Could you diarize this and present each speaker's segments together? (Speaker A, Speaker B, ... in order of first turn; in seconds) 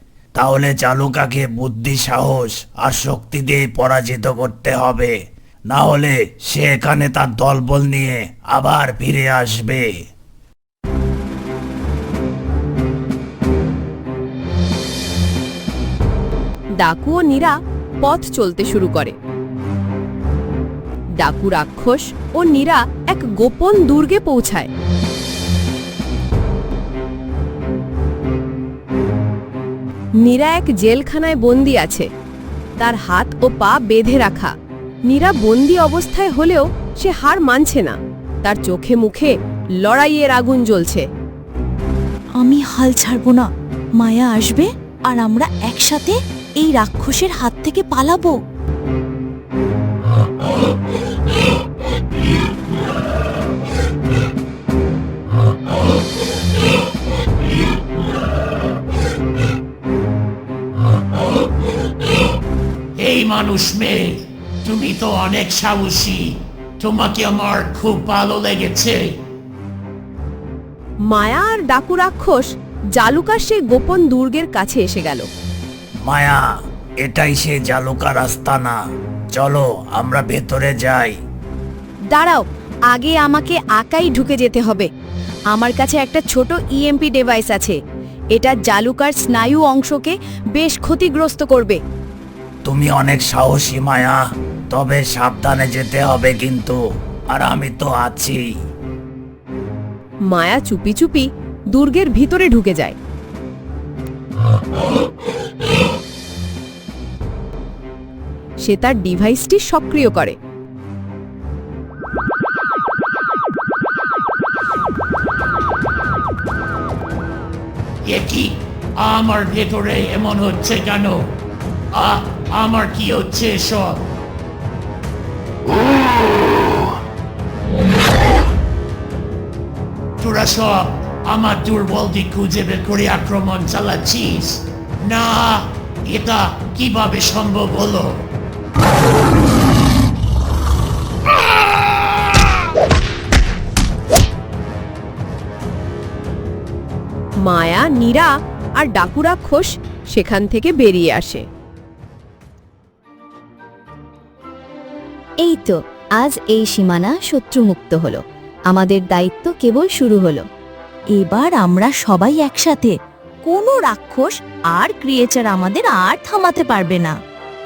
Speaker A: 0.3-5.1, 5.7-9.8, 76.1-76.4, 77.0-78.8, 79.3-81.2, 92.6-94.2, 94.7-96.8, 97.3-98.4
Speaker B: 16.8-19.1, 21.2-24.7, 30.2-32.1, 32.8-34.5, 35.1-41.1, 71.1-75.3, 100.3-103.0, 108.6-110.4, 147.4-151.4
Speaker C: 42.4-43.5, 44.0-48.4, 161.2-162.9, 163.4-167.1
Speaker D: 63.0-69.0, 118.0-121.2, 121.9-124.0, 130.2-138.2
Speaker E: 82.1-84.9, 85.5-87.8, 88.3-91.8, 155.4-160.4